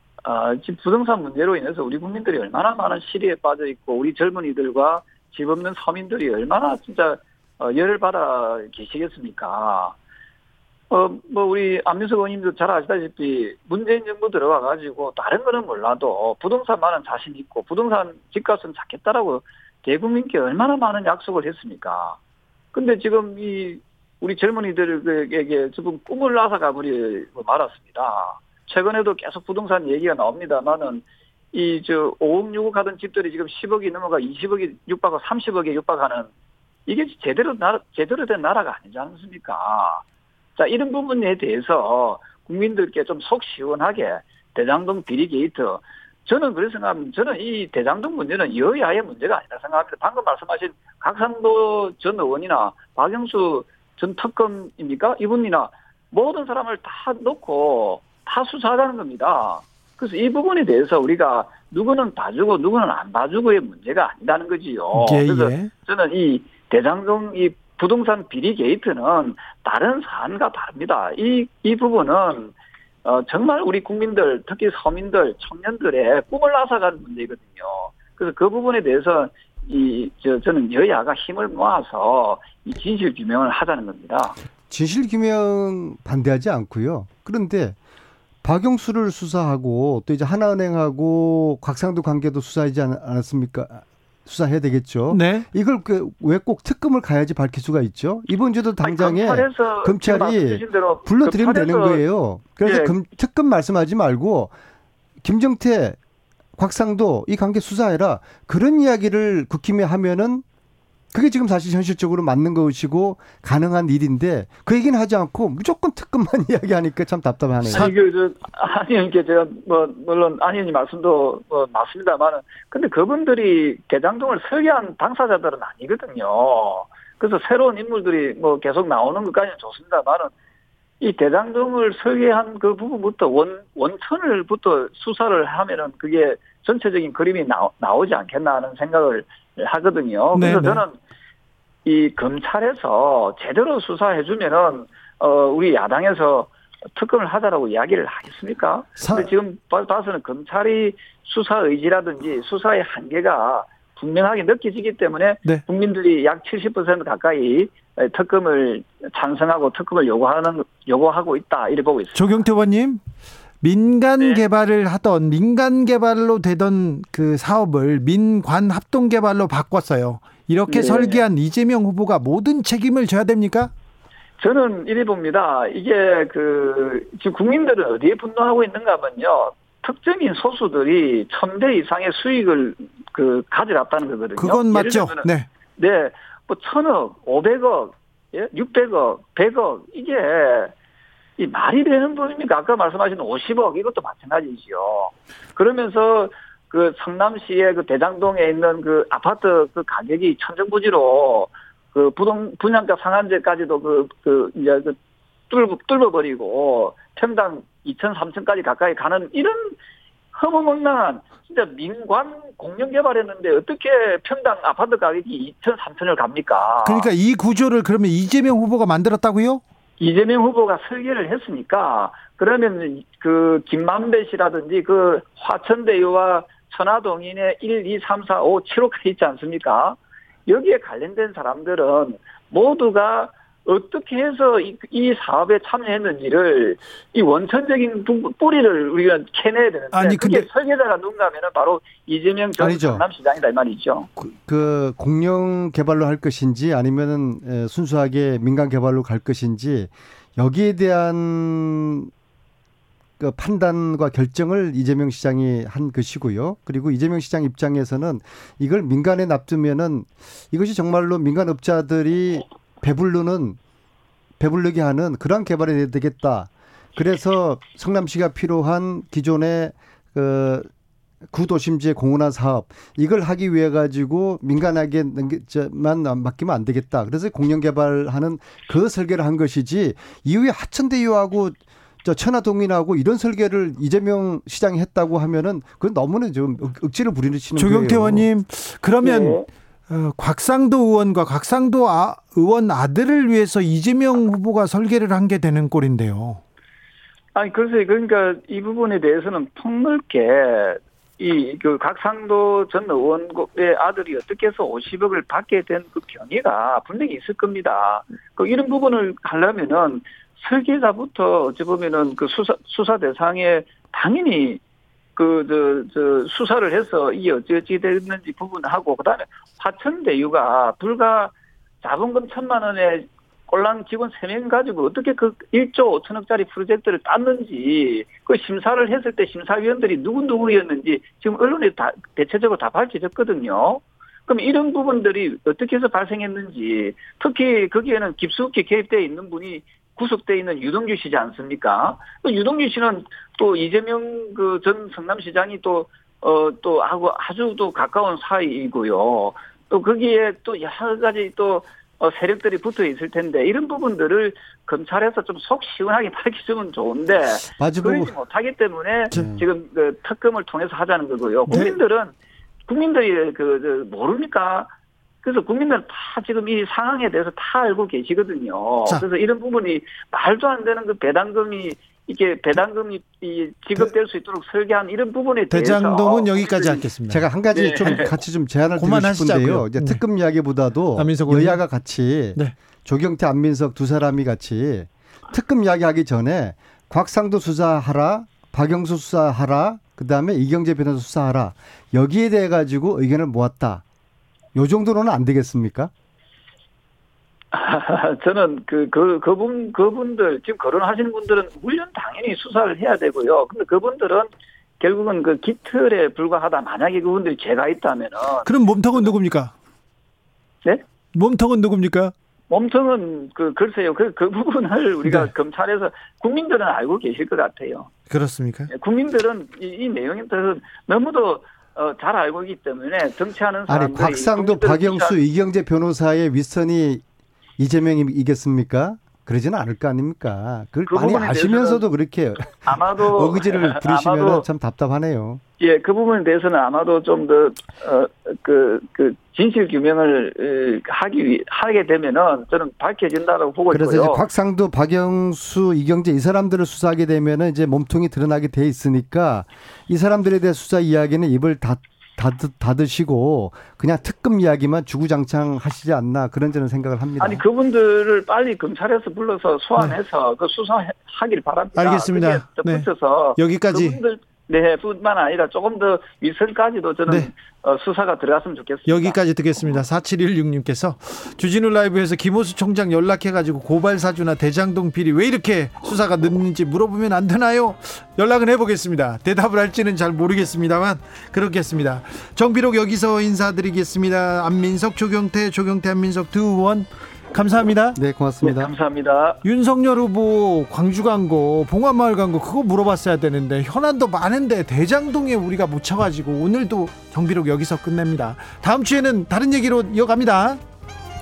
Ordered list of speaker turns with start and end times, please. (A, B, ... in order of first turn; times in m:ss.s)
0:00.2-0:10.0 A
0:10.9-0:22.2 A
0:22.7-0:36.3 A
0:36.9-0:40.0 A
0:40.6-1:24.4 A
1:04.9-1:05.7 B
1:24.7-1:27.8 C
1:28.4-1:44.5 C
1:35.1-1:35.4 B
1:38.8-1:42.0 A
1:42.6-1:43.0 A
1:45.2-1:46.0 C
1:46.6-1:50.4 C
1:51.1-1:57.9 C
1:57.7-2:10.3 A
2:11.0-2:20.9 A
2:20.4-2:20.8 B
2:21.8-2:42.4 A
2:29.0-2:29.3 B
2:42.1-2:43.0 B
2:43.6-2:53.7 B
2:50.7-2:51.2 A
2:54.4-3:10.7 A
3:04.4-3:05.5 B
3:11.4-3:25.0 A
3:25.5-3:29.8 A
3:30.4-3:37.1 A
3:36.8-3:39.6 B
3:40.0-4:04.1 A
3:59.9-4:00.5 B
4:02.6-4:03.0 C
4:04.2-4:12.1 C
4:13.2-4:23.6 C
4:24.4-4:30.7 C
4:31.3-4:48.3 C
4:47.6-4:56.4 B
4:49.0-4:49.5 A
4:57.4-5:14.6 A
5:15.2-6:02.1 A
5:57.5-5:58.1 C
5:59.1-5:59.4 C
6:01.5-6:01.8 B
6:02.7-6:04.7 A
6:05.2-6:16.8 A
6:15.5-6:17.3 B
6:17.1-6:33.8 C
6:17.5-6:18.1 A
6:18.8-6:20.0 B
6:21.0-6:21.6 B
6:34.6-6:35.9 C
6:37.5-6:44.3 A
6:44.8-6:48.5 A
6:48.4-6:49.5 B
6:51.1-6:52.1 B
6:52.5-6:57.9 A
6:55.0-6:55.3 B
6:58.1-6:58.7 B
6:58.7-7:05.2 A
7:03.7-7:07.0 C
7:07.6-7:15.4 C
7:10.9-7:11.8 A
7:12.6-7:14.4 A
7:15.6-7:24.2 A
7:23.7-7:37.4 C
7:37.2-7:49.2 A
7:41.8-7:44.0 B
7:48.9-8:08.0 B
8:08.0-8:08.7 C
8:08.4-8:09.4 A
8:09.4-8:20.6 B